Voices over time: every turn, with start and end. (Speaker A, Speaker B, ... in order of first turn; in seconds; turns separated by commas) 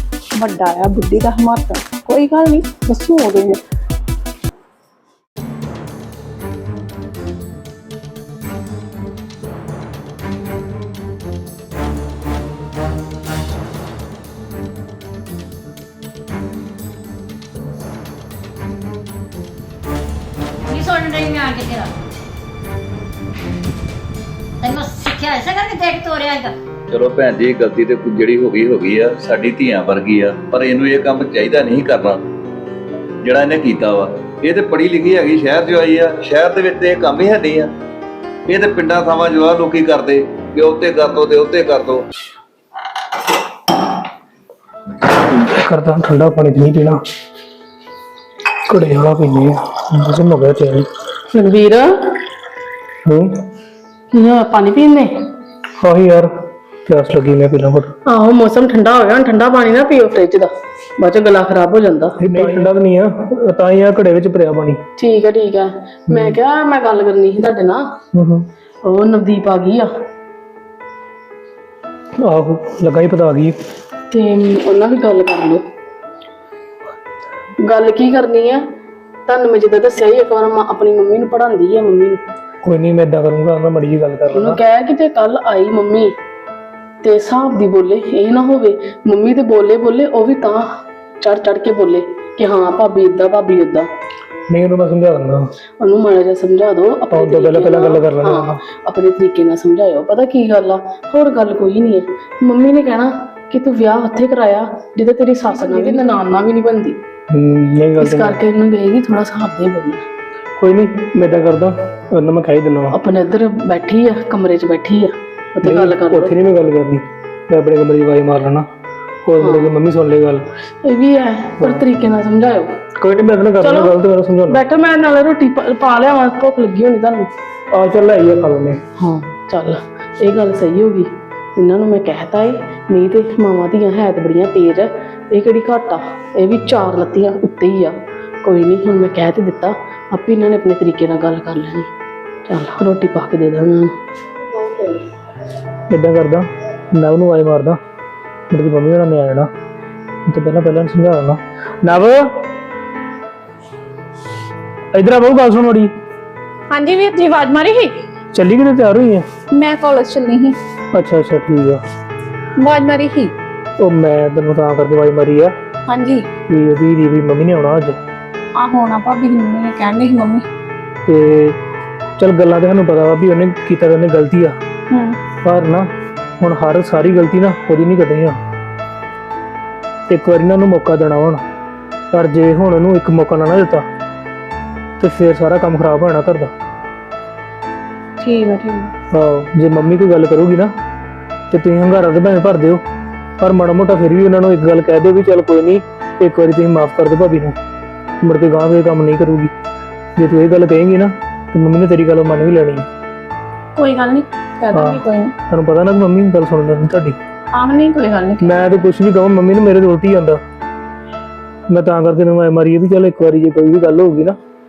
Speaker A: 0.4-3.6, Speaker B: 20.7-21.8, Speaker B: 25.2-26.1, Speaker C: 26.9-32.2, Speaker C: 33.2-37.7, Speaker C: 38.5-42.0, Speaker D: 45.5-47.0, Speaker D: 48.7-50.9, Speaker E: 51.3-51.9, Speaker D: 53.0-53.4, Speaker E: 54.1-55.1, Speaker D: 55.8-56.3, Speaker D: 56.9-57.9, Speaker E: 58.1-62.6, Speaker D: 62.2-64.8, Speaker E: 65.0-67.8, Speaker D: 66.1-66.3, Speaker D: 68.1-68.5, Speaker E: 68.8-69.9, Speaker D: 72.2-73.5, Speaker E: 74.1-75.6, Speaker E: 77.6-78.6, Speaker E: 79.3-82.2, Speaker D: 82.6-84.6, Speaker E: 84.3-86.1, Speaker E: 87.0-90.6, Speaker E: 91.2-93.9, Speaker D: 94.5-95.5, Speaker E: 95.8-107.0, Speaker D: 97.1-98.6, Speaker A: 105.5-106.1, Speaker D: 107.3-108.4, Speaker E: 108.0-110.0, Speaker D: 110.6-112.9, Speaker E: 112.9-116.3, Speaker D: 115.6-118.7, Speaker D: 119.2-120.4, Speaker E: 119.4-119.8, Speaker E: 120.8-122.7, Speaker D: 123.0-124.6, Speaker E: 123.6-123.9, Speaker E: 124.5-127.3, Speaker D: 127.7-128.8, Speaker E: 129.5-141.9, Speaker E: 142.5-143.9, Speaker E: 144.5-145.0, Speaker D: 145.9-147.8, Speaker D: 148.5-149.5, Speaker D: 150.3-152.2, Speaker D: 154.9-155.9, Speaker A: 156.7-158.0, Speaker D: 158.3-159.2, Speaker A: 159.5-160.5, Speaker D: 160.9-161.8, Speaker A: 162.6-163.3, Speaker D: 163.8-165.5, Speaker A: 165.9-166.2, Speaker D: 166.5-168.0, Speaker A: 168.6-170.4, Speaker D: 171.1-171.6, Speaker D: 172.2-174.5, Speaker A: 174.9-175.2, Speaker D: 175.4-175.8, Speaker D: 176.4-178.4, Speaker D: 180.1-181.4, Speaker D: 182.1-183.8, Speaker D: 185.0-186.5, Speaker A: 188.2-188.9, Speaker D: 189.1-190.7, Speaker D: 191.5-192.8, Speaker D: 193.4-197.6, Speaker D: 198.2-199.5, Speaker D: 200.2-202.8, Speaker A: 203.8-205.3, Speaker D: 204.7-207.2, Speaker A: 207.5-208.8, Speaker D: 208.4-210.4, Speaker D: 211.7-214.4